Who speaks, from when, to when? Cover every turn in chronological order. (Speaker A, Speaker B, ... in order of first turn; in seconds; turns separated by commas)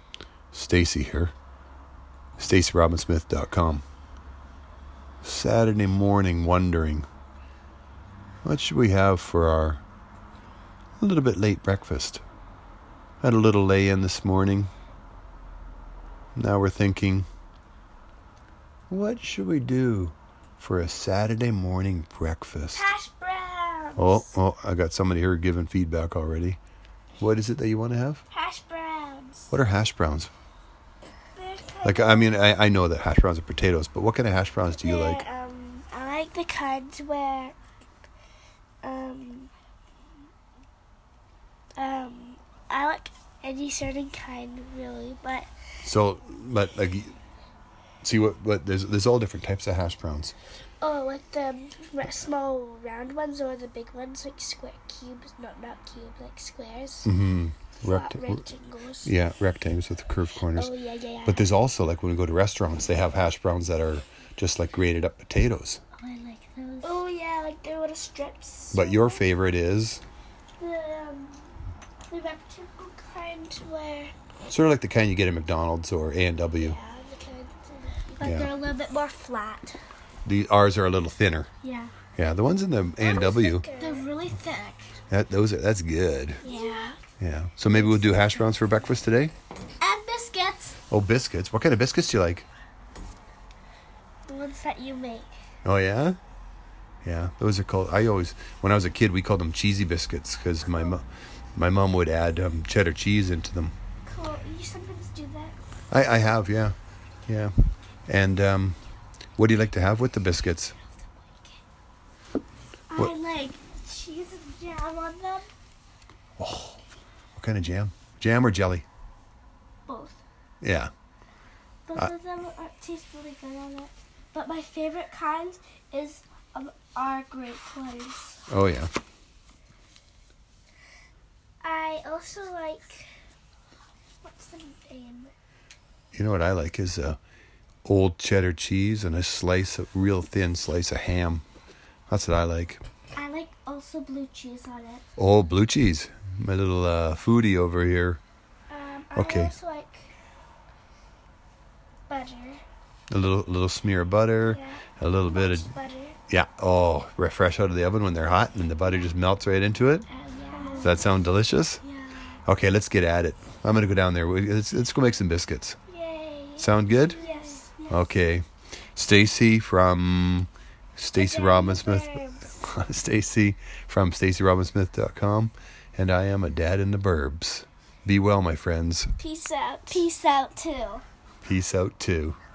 Speaker A: 0.5-1.3, Speaker A: 2.4-3.8, Speaker A: 5.2-7.1, Speaker A: 8.4-9.8, Speaker A: 11.0-12.2, Speaker A: 13.2-14.7, Speaker A: 16.4-17.3, Speaker A: 18.9-22.9, Speaker B: 22.7-24.3, Speaker A: 24.0-26.6, Speaker A: 27.2-28.2, Speaker B: 28.3-29.5, Speaker A: 29.5-30.3, Speaker B: 31.4-32.3, Speaker A: 31.8-35.2, Speaker B: 34.7-37.5, Speaker B: 38.8-39.5, Speaker B: 41.8-45.5, Speaker A: 45.8-47.1, Speaker A: 48.0-50.3, Speaker B: 50.8-57.1, Speaker A: 57.0-58.4, Speaker B: 57.8-59.1, Speaker A: 59.0-60.7, Speaker B: 60.5-61.5, Speaker A: 61.2-65.8, Speaker C: 66.0-67.0, Speaker B: 66.8-69.2, Speaker A: 68.7-70.0, Speaker B: 70.6-74.1, Speaker A: 74.5-76.8, Speaker B: 76.5-78.5, Speaker C: 78.2-79.8, Speaker A: 78.2-78.5, Speaker A: 80.2-81.5, Speaker C: 81.6-81.9, Speaker A: 82.2-83.7, Speaker B: 83.0-84.1, Speaker C: 83.7-84.9, Speaker A: 85.1-86.4, Speaker B: 86.4-87.0, Speaker C: 86.4-87.0, Speaker A: 87.2-89.3, Speaker C: 87.7-88.4, Speaker C: 89.8-90.8, Speaker A: 90.9-92.5, Speaker B: 94.3-95.3, Speaker A: 95.6-96.2, Speaker A: 97.0-103.7, Speaker B: 104.0-105.6, Speaker A: 105.9-106.8, Speaker A: 107.3-107.5, Speaker A: 108.1-108.8, Speaker A: 109.4-110.7, Speaker B: 111.2-111.5, Speaker B: 112.9-115.5, Speaker A: 116.4-116.8, Speaker A: 117.3-118.8, Speaker B: 119.9-120.2, Speaker A: 120.6-120.9, Speaker B: 121.9-128.4, Speaker A: 128.5-128.9, Speaker B: 131.6-133.1, Speaker B: 134.2-135.3, Speaker A: 136.1-137.2, Speaker A: 137.8-141.4, Speaker A: 142.1-142.8, Speaker B: 143.1-145.0, Speaker A: 145.2-148.2, Speaker B: 148.7-150.1, Speaker A: 149.1-149.5, Speaker B: 152.1-152.6, Speaker A: 153.1-155.7, Speaker B: 154.4-156.2, Speaker A: 156.3-160.1, Speaker B: 160.1-161.0, Speaker C: 160.5-161.0, Speaker A: 160.8-161.8, Speaker C: 161.8-162.3, Speaker A: 162.4-165.8, Speaker B: 165.9-167.7, Speaker A: 166.6-167.2, Speaker C: 167.1-168.1, Speaker A: 167.9-168.4, Speaker A: 168.9-179.1, Speaker B: 171.1-172.5, Speaker B: 179.2-180.9, Speaker C: 180.7-181.0, Speaker A: 181.4-182.4